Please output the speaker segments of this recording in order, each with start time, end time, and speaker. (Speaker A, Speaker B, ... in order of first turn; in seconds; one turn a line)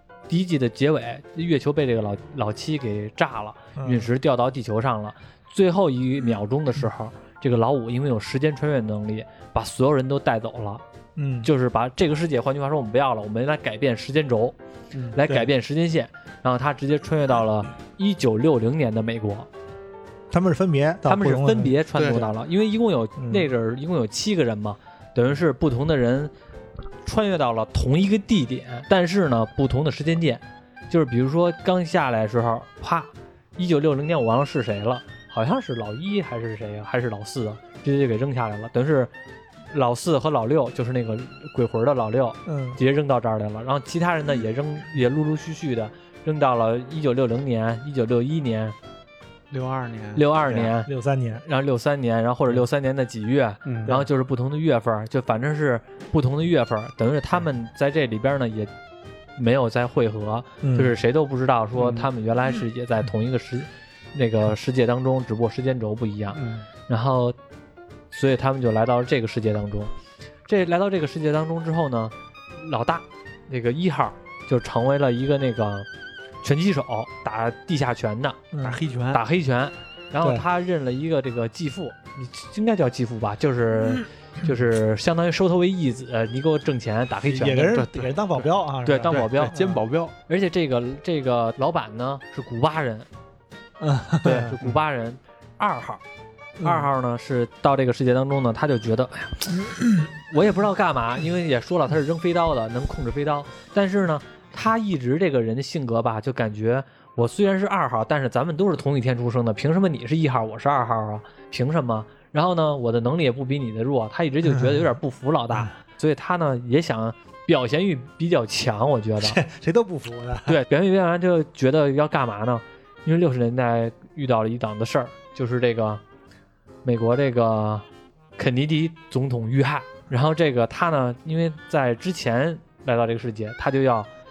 Speaker A: 0.3-10.8
Speaker B: 3.8-4.1
Speaker B: 11.2-11.5
Speaker A: 11.4-14.6
Speaker A: 15.2-19.5
Speaker B: 20.3-21.7
Speaker A: 21.1-26.3
Speaker C: 22.0-22.3
Speaker B: 23.2-23.5
Speaker A: 27.0-39.1
Speaker A: 39.7-48.8
Speaker B: 42.5-42.8
Speaker C: 49.5-50.5
Speaker A: 50.1-50.9
Speaker B: 50.5-51.4
Speaker A: 51.4-58.7
Speaker C: 53.7-54.0
Speaker A: 59.4-67.4
Speaker B: 60.6-60.9
Speaker C: 61.8-62.1
Speaker C: 66.3-66.7
Speaker A: 68.1-69.9
Speaker A: 70.5-75.9
Speaker A: 76.4-78.4
Speaker B: 78.5-78.8
Speaker C: 78.6-79.2
Speaker A: 79.1-87.8
Speaker B: 87.3-89.8
Speaker C: 87.6-88.1
Speaker A: 88.8-89.5
Speaker C: 89.1-90.1
Speaker A: 90.3-93.1
Speaker B: 93.8-94.6
Speaker A: 94.2-96.0
Speaker B: 96.6-96.9
Speaker A: 96.6-119.4
Speaker B: 114.5-114.8
Speaker B: 119.2-120.6
Speaker A: 120.5-126.0
Speaker A: 126.8-127.8
Speaker A: 128.4-134.1